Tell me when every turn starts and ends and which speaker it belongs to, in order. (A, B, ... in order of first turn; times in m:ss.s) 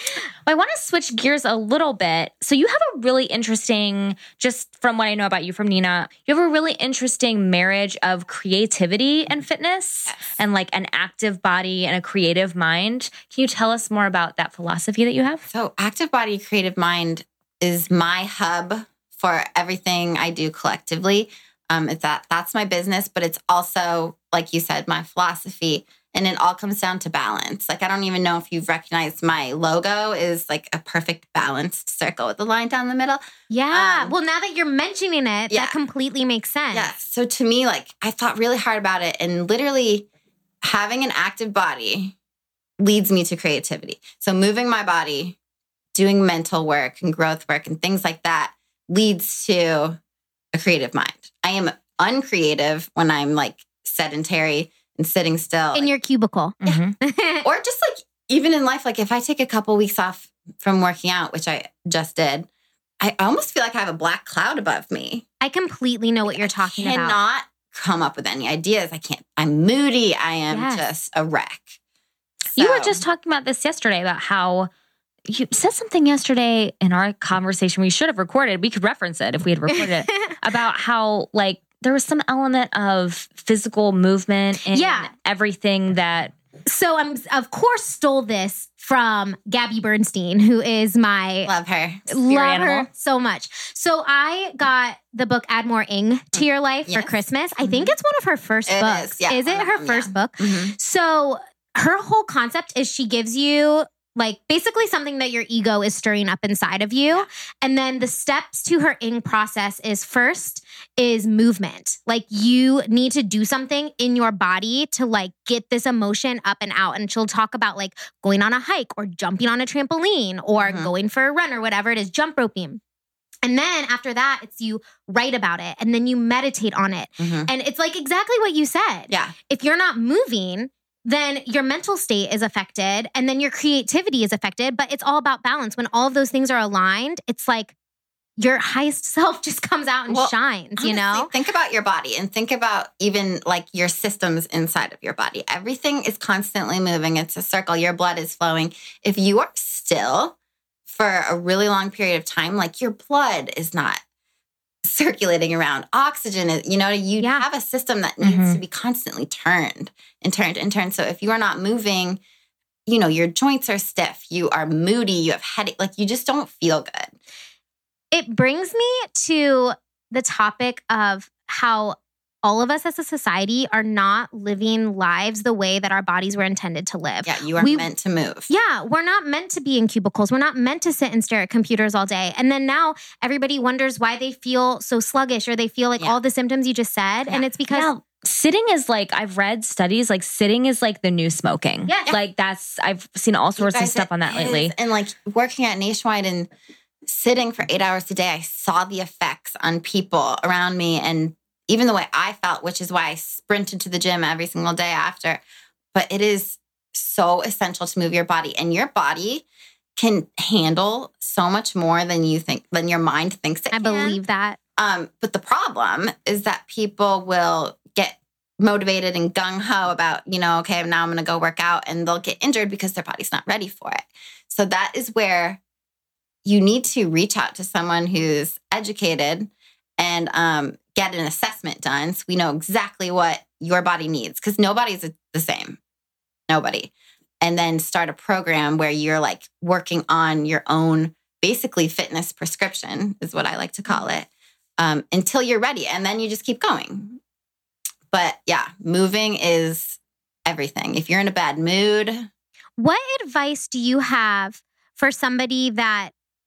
0:00.5-0:15.5 A
0:15.5-0:34.1 B
0:33.5-0:36.9 C
0:35.5-0:35.8 B
0:36.7-0:40.1 B
0:40.6-0:42.2 B
0:42.8-0:45.4 B
0:45.9-0:50.0 B
0:50.5-0:55.9 B
0:55.8-0:57.4 C
0:56.6-0:57.0 A
0:57.4-1:02.5 B
1:03.0-1:05.2 B
1:05.4-1:07.2 C
1:06.3-1:11.8 B
1:10.5-1:10.8 C
1:12.6-1:14.7 A
1:12.6-1:13.0 B
1:15.3-1:26.3 A
1:19.7-1:20.4 C
1:24.7-1:25.1 C
1:26.7-1:31.5 C
1:31.5-1:32.1 B
1:32.1-2:02.8 C
1:32.1-1:32.9 A
1:36.4-1:38.0 B
1:38.7-1:40.8 B
2:00.6-2:00.9 B
2:03.4-2:17.7 C
2:07.2-2:07.5 B
2:09.1-2:09.4 B
2:18.4-2:21.3 C
2:20.1-2:30.4 B
2:30.9-2:34.0 B
2:34.8-2:42.2 B
2:37.2-2:37.4 C
2:38.2-2:38.6 A
2:42.9-2:47.1 B
2:48.1-2:57.9 C
2:57.2-2:58.5 B
2:58.5-3:07.9 C
3:07.7-3:14.7 A
3:11.9-3:12.2 C
3:13.6-3:16.5 B
3:17.0-3:25.4 B
3:25.9-3:29.4 B
3:30.0-3:34.2 B
3:33.7-3:34.6 C
3:34.8-3:45.6 B
3:46.4-3:55.8 B
3:56.5-4:07.2 B
4:08.1-4:12.3 B
4:12.8-4:16.1 C